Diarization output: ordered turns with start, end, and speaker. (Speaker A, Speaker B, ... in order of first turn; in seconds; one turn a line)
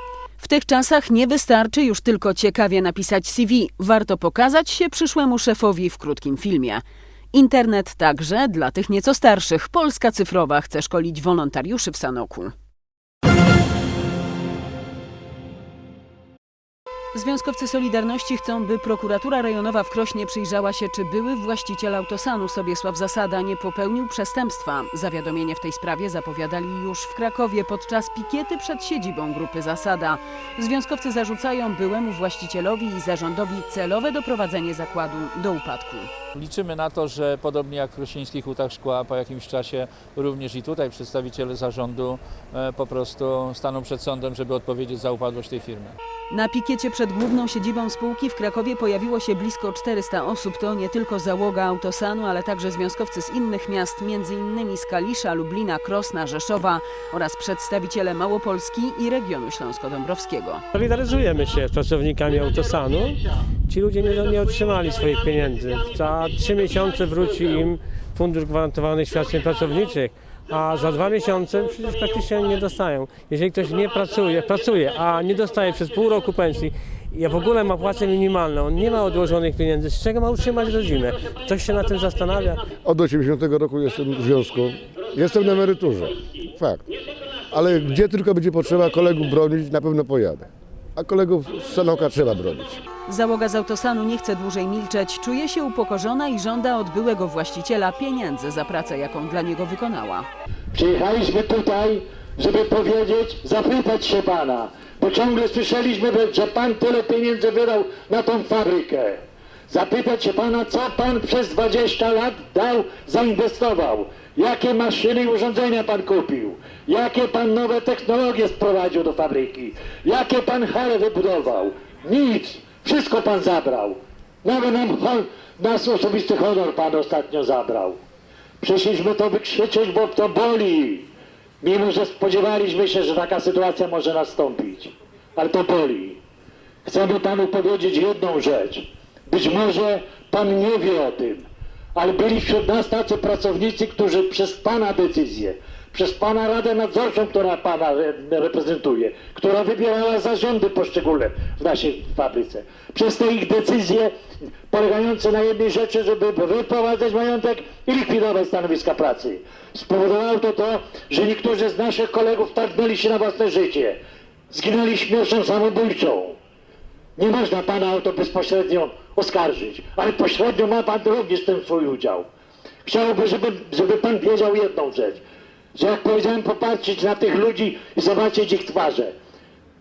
Speaker A: 0.4-12.5
Speaker A: 17.1-36.1
Speaker B: 36.3-46.0
Speaker A: 46.3-60.6
Speaker C: 60.7-82.6
Speaker D: 82.9-86.8
Speaker D: 87.5-90.4
Speaker D: 91.0-92.8
Speaker A: 93.1-100.3
Speaker E: 100.7-128.0
Speaker E: 128.6-131.1
Speaker E: 131.6-136.2
Speaker E: 136.8-154.2
Speaker E: 154.7-166.4
Speaker E: 167.2-172.3
Speaker E: 172.8-175.2
Speaker E: 175.8-179.1